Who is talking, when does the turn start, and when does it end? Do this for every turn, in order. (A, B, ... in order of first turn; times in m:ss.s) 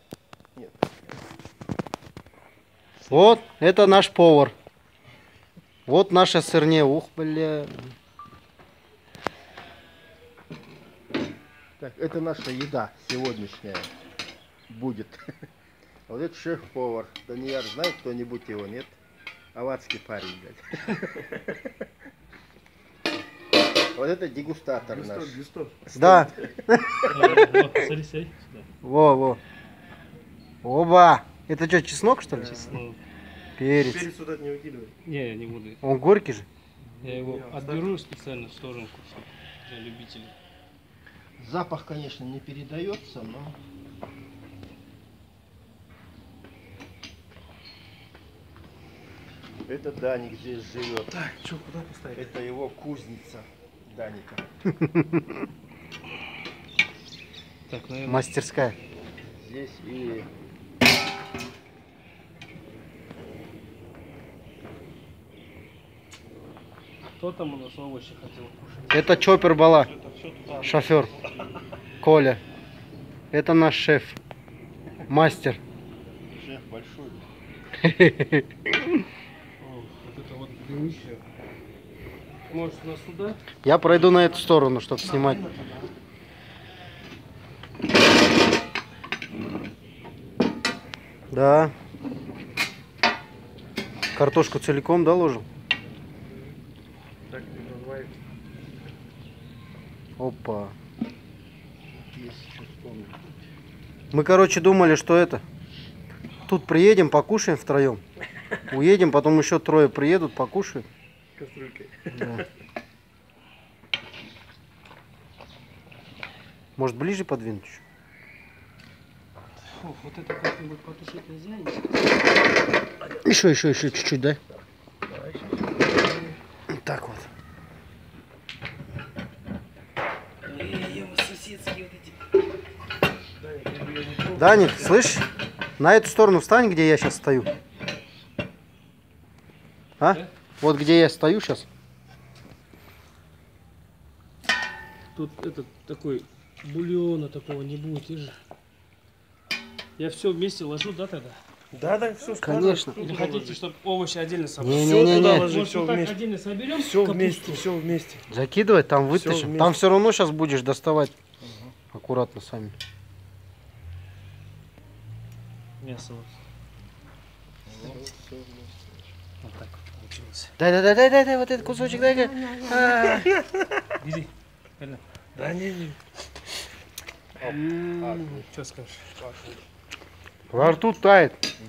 0:03.1-0:04.5 A
0:05.9-0:07.8 A
0:11.8-0:13.9 B
0:14.7-0:15.2 B
0:16.1-0:19.0 B
0:19.5-0:21.0 B
0:23.9-0:25.4 B
0:24.8-0:25.9 C
0:25.9-0:26.3 B
0:25.9-0:27.0 A
0:27.1-0:28.6 D
0:28.8-0:29.4 A
0:30.6-0:32.8 A
0:32.3-0:32.8 C
0:32.6-0:33.0 D
0:33.6-0:34.1 A
0:33.7-0:34.9 C
0:35.0-0:35.8 D
0:35.8-0:36.4 A
0:37.0-0:37.9 C
0:37.0-0:40.3 D
0:41.4-0:43.6 B
0:49.7-0:51.1 B
0:51.1-0:52.4 C
0:52.1-0:54.5 B
0:54.8-0:55.2 A
0:57.7-0:58.2 D
0:58.0-0:58.8 A
0:59.4-1:00.3 B
1:07.2-1:09.1 D
1:08.9-1:09.9 A
1:09.6-1:11.4 C
1:10.6-1:11.1 A
1:12.0-1:12.4 A
1:13.3-1:14.2 A
1:15.1-1:15.6 A
1:16.3-1:17.3 B
1:17.8-1:18.4 A
1:19.6-1:21.2 D
1:22.5-1:23.4 D
1:23.6-1:25.4 A
1:25.0-1:25.9 C
1:31.3-1:31.7 A
1:34.1-1:35.4 A
1:37.3-1:38.1 C
1:40.2-1:40.7 A
1:42.0-1:43.2 B
1:44.1-1:45.4 A
1:46.5-1:48.0 A
1:48.7-1:50.8 A
1:51.4-1:52.4 C
1:52.1-1:52.4 A
1:56.8-1:57.8 A
1:59.7-2:02.0 D
2:03.2-2:04.4 A
2:05.1-2:05.7 C
2:06.7-2:07.3 A
2:10.4-2:12.1 D
2:13.4-2:15.0 C
2:14.3-2:15.2 A
2:15.8-2:17.5 A
2:20.0-2:21.7 A
2:25.1-2:28.4 D
2:30.0-2:31.4 D
2:31.7-2:33.6 C
2:32.4-2:33.0 A
2:33.0-2:37.7 D
2:34.6-2:35.5 A
2:34.8-2:36.2 C
2:36.7-2:38.2 C
2:38.3-2:41.1 A
2:39.1-2:39.8 C
2:41.4-2:41.7 C
2:41.9-2:42.7 A
2:45.8-2:46.3 D
2:47.7-2:49.0 B
2:49.4-2:50.5 D
2:50.6-2:53.3 A
2:52.3-2:53.1 D
2:53.1-2:53.6 C
2:54.0-2:55.0 D
2:55.3-2:56.0 C
2:57.4-2:58.4 B
2:57.4-2:59.1 D
2:59.2-2:59.6 B
3:00.5-3:01.4 A